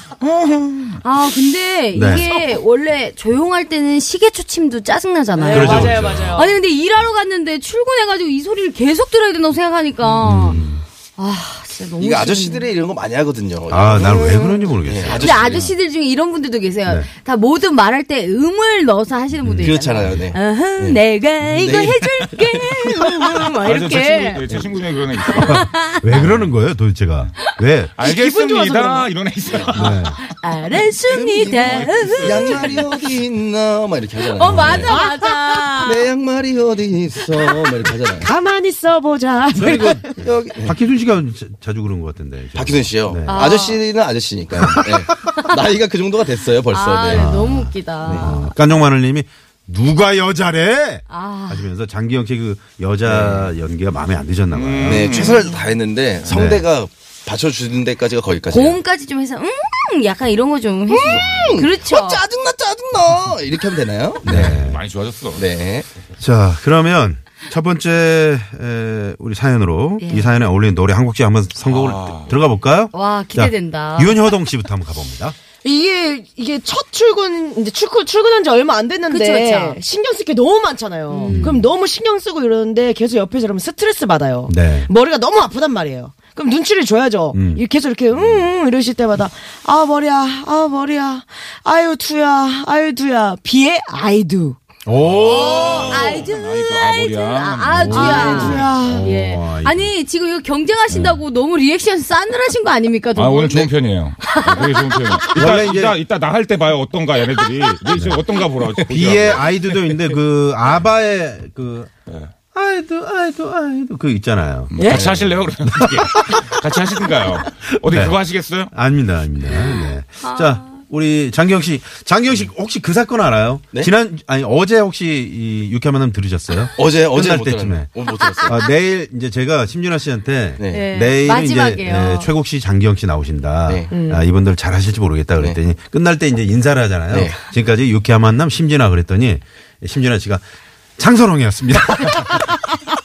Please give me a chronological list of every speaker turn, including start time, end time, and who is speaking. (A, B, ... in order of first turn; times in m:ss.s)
0:00.2-0:01.0 A
0:01.0-0:10.6 B
0:01.9-0:02.3 C
0:05.4-0:06.5 D
0:05.5-0:06.4 C
0:10.2-0:10.8 C
0:11.2-0:12.7 B
0:12.0-0:15.7 E
0:13.7-0:15.6 C
0:14.0-0:24.4 B
0:19.4-0:20.2 C
0:19.6-0:21.0 E
0:21.5-0:22.7 E
0:23.5-0:26.5 A
0:25.3-0:26.0 B
0:25.4-0:27.9 C
0:28.0-0:30.2 A
0:28.0-0:29.1 D
0:29.7-0:30.2 C
0:30.2-0:32.9 B
0:31.1-0:35.0 E
0:31.6-0:32.9 A
0:34.3-0:36.0 B
0:34.5-0:34.9 C
0:34.8-0:35.8 D
0:35.8-0:38.3 E
0:38.2-0:40.2 D
0:39.6-0:43.5 C
0:40.2-0:40.8 E
0:42.6-0:47.3 E
0:43.3-0:43.8 B
0:44.6-0:45.0 C
0:46.7-0:48.5 B
0:47.1-0:55.4 C
0:48.1-0:48.3 E
0:51.1-0:51.7 B
0:53.1-0:53.5 E
0:54.5-0:55.5 A
0:54.8-0:58.8 E
0:56.3-0:56.6 C
0:58.5-1:02.2 B
1:00.9-1:04.6 E
1:04.2-1:04.8 C
1:04.2-1:05.4 A
1:05.4-1:05.9 E
1:06.2-1:15.4 C
1:10.0-1:10.3 B
1:11.6-1:12.4 A
1:12.9-1:14.3 B
1:15.6-1:34.6 D
1:19.1-1:19.8 B
1:21.1-1:21.6 B
1:21.3-1:21.7 C
1:24.5-1:24.9 C
1:27.3-1:27.6 C
1:34.9-1:36.2 C
1:35.0-1:38.6 A
1:35.2-1:43.6 B
1:37.7-1:39.9 C
1:37.9-1:39.1 D
1:43.2-1:49.5 A
1:44.2-1:45.2 B
1:45.3-1:46.0 C
1:47.9-1:48.2 C
1:48.8-1:51.9 C
1:52.5-1:55.0 C
1:54.7-1:58.7 A
1:55.6-1:56.6 C
1:57.8-1:58.2 C
1:58.7-2:07.9 C
2:00.2-2:00.8 B
2:06.8-2:08.6 E
2:08.4-2:20.4 C
2:10.6-2:10.9 E
2:10.7-2:12.3 B
2:13.7-2:13.9 E
2:13.9-2:14.2 D
2:17.1-2:17.4 E
2:21.0-2:22.5 C